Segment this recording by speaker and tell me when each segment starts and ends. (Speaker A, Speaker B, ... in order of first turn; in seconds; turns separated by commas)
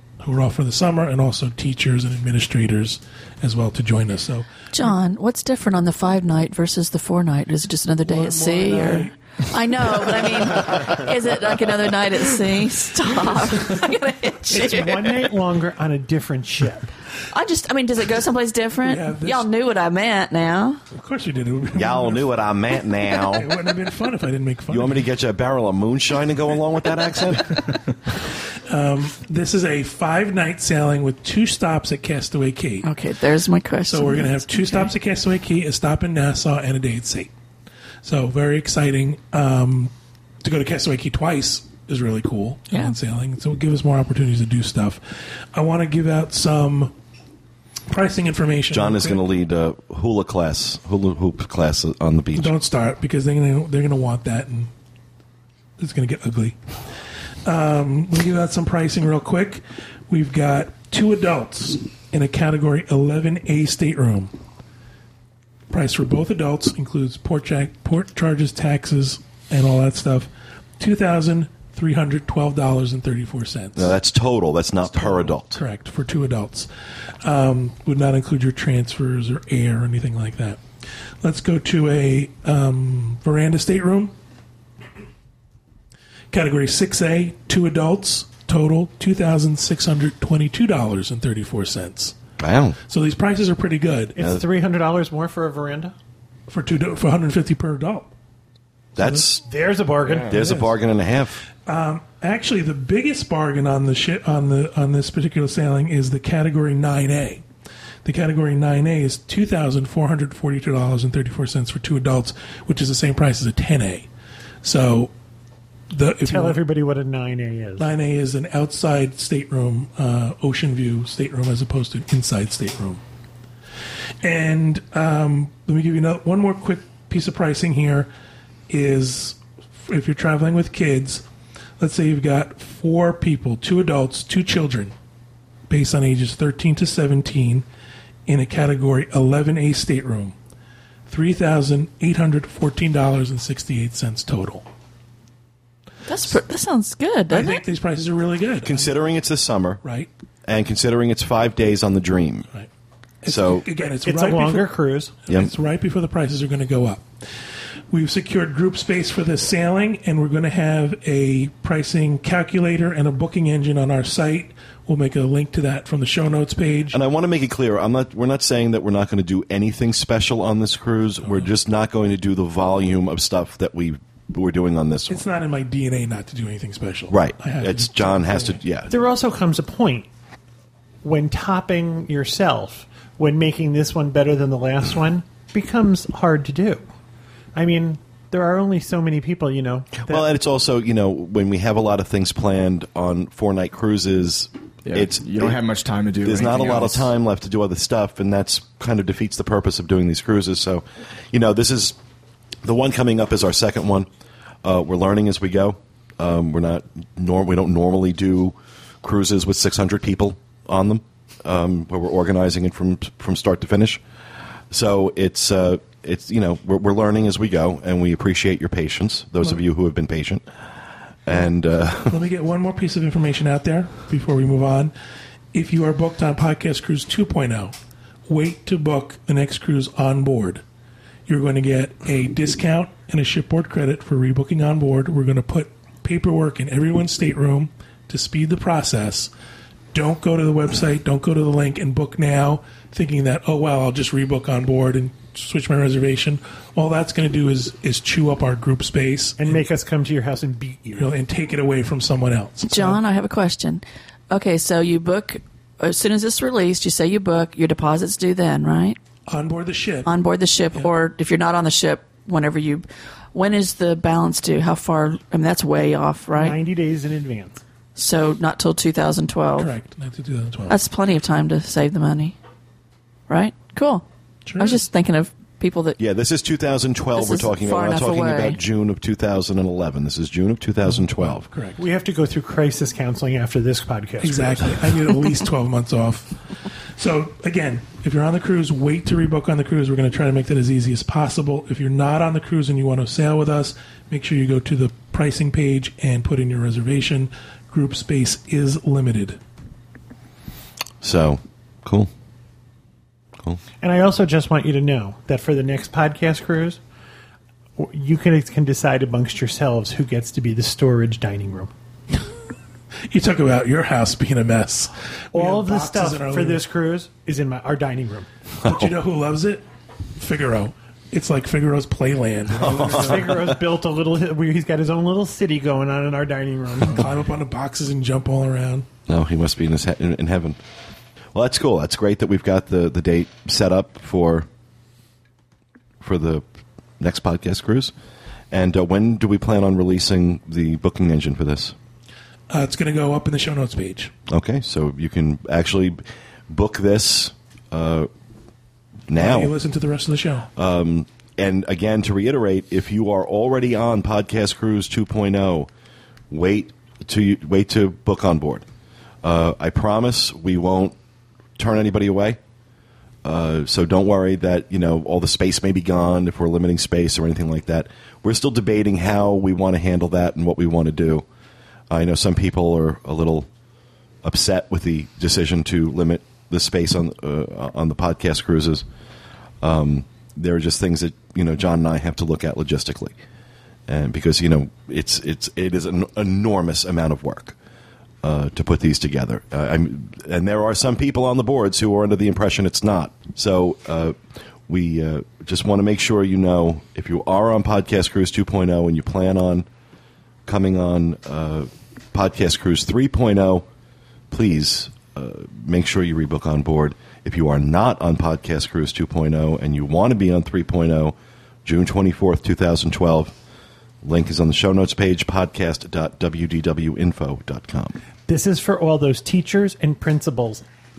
Speaker A: 0.2-4.6, Speaker B: 4.7-15.2, Speaker A: 8.1-9.1, Speaker A: 9.8-10.2, Speaker C: 14.5-16.9, Speaker B: 17.3-20.8, Speaker A: 18.8-19.5, Speaker A: 20.9-22.4, Speaker D: 21.8-23.5, Speaker A: 23.3-25.1, Speaker D: 24.7-27.6, Speaker A: 28.7-32.9, Speaker B: 32.8-34.9, Speaker A: 33.9-37.3, Speaker A: 38.0-39.9, Speaker A: 40.4-45.0, Speaker A: 45.5-46.9, Speaker A: 47.9-49.2, Speaker D: 48.7-52.5, Speaker A: 52.4-54.7, Speaker A: 55.8-56.6, Speaker A: 57.5-64.3, Speaker A: 65.7-73.9, Speaker D: 73.8-75.6, Speaker A: 74.9-76.7, Speaker A: 77.2-80.6, Speaker A: 81.2-84.1, Speaker A: 86.3-92.2, Speaker D: 92.4-92.8, Speaker A: 92.9-94.2, Speaker C: 94.2-95.9, Speaker A: 96.5-98.1, Speaker D: 99.0-99.4, Speaker A: 99.0-99.2, Speaker C: 99.5-100.5, Speaker D: 100.3-101.4, Speaker A: 101.7-107.4, Speaker A: 108.0-114.1, Speaker A: 114.6-115.1, Speaker A: 115.9-116.6, Speaker C: 116.2-117.9, Speaker A: 117.8-123.0, Speaker A: 124.2-128.1, Speaker A: 128.7-131.2, Speaker A: 131.8-134.9, Speaker A: 135.7-137.7, Speaker A: 138.3-140.3, Speaker A: 141.1-144.7, Speaker B: 146.1-147.6, Speaker A: 147.3-148.9, Speaker D: 148.6-149.8, Speaker A: 149.8-150.1, Speaker D: 150.5-152.5, Speaker A: 153.2-157.1, Speaker D: 153.3-153.7, Speaker C: 153.8-155.1, Speaker A: 157.9-167.0, Speaker D: 166.9-175.2, Speaker A: 171.2-171.5, Speaker A: 175.1-178.6, Speaker D: 177.1-178.9, Speaker C: 178.9-180.1, Speaker C: 181.0-186.8, Speaker C: 187.6-190.2, Speaker D: 190.0-195.6, Speaker E: 194.9-197.1, Speaker D: 196.2-202.0, Speaker D: 202.6-204.1, Speaker D: 204.6-214.0, Speaker D: 214.7-220.4, Speaker D: 221.3-222.2, Speaker A: 222.1-224.9, Speaker A: 225.5-227.8, Speaker A: 228.3-230.6, Speaker A: 231.3-239.3, Speaker A: 239.9-249.6, Speaker C: 249.4-251.1, Speaker A: 251.0-253.0, Speaker B: 252.6-259.0, Speaker A: 259.3-260.1, Speaker B: 260.1-266.6, Speaker C: 266.3-267.6, Speaker B: 268.0-269.7, Speaker A: 269.6-270.8, Speaker B: 270.7-272.4, Speaker B: 273.3-274.1, Speaker A: 274.5-274.8, Speaker B: 274.6-276.0, Speaker D: 276.0-281.5, Speaker B: 277.2-278.6, Speaker A: 280.9-281.8, Speaker C: 281.8-285.0, Speaker A: 284.2-286.3, Speaker A: 287.0-299.4, Speaker D: 301.0-302.1, Speaker C: 303.8-306.8, Speaker C: 307.8-311.7, Speaker A: 313.1-316.6, Speaker C: 315.3-318.3, Speaker D: 318.6-318.9, Speaker A: 318.6-319.6, Speaker A: 320.2-323.0, Speaker D: 322.5-323.6, Speaker C: 322.6-327.0, Speaker A: 326.8-328.9, Speaker D: 329.1-330.6, Speaker D: 331.3-334.5, Speaker D: 336.0-336.4, Speaker D: 337.0-337.9, Speaker D: 338.5-341.8, Speaker A: 342.5-344.1, Speaker D: 344.3-348.1, Speaker D: 349.1-349.5, Speaker A: 349.1-350.5, Speaker D: 350.6-355.7, Speaker D: 356.3-358.6, Speaker D: 359.2-361.0, Speaker D: 361.6-362.4, Speaker D: 363.2-371.3, Speaker D: 371.9-373.5, Speaker D: 374.2-378.9, Speaker D: 379.6-383.1, Speaker D: 383.9-387.6, Speaker D: 388.2-394.2, Speaker D: 394.7-399.7, Speaker D: 400.5-403.7, Speaker D: 404.3-413.4, Speaker D: 414.0-418.0, Speaker C: 418.3-420.6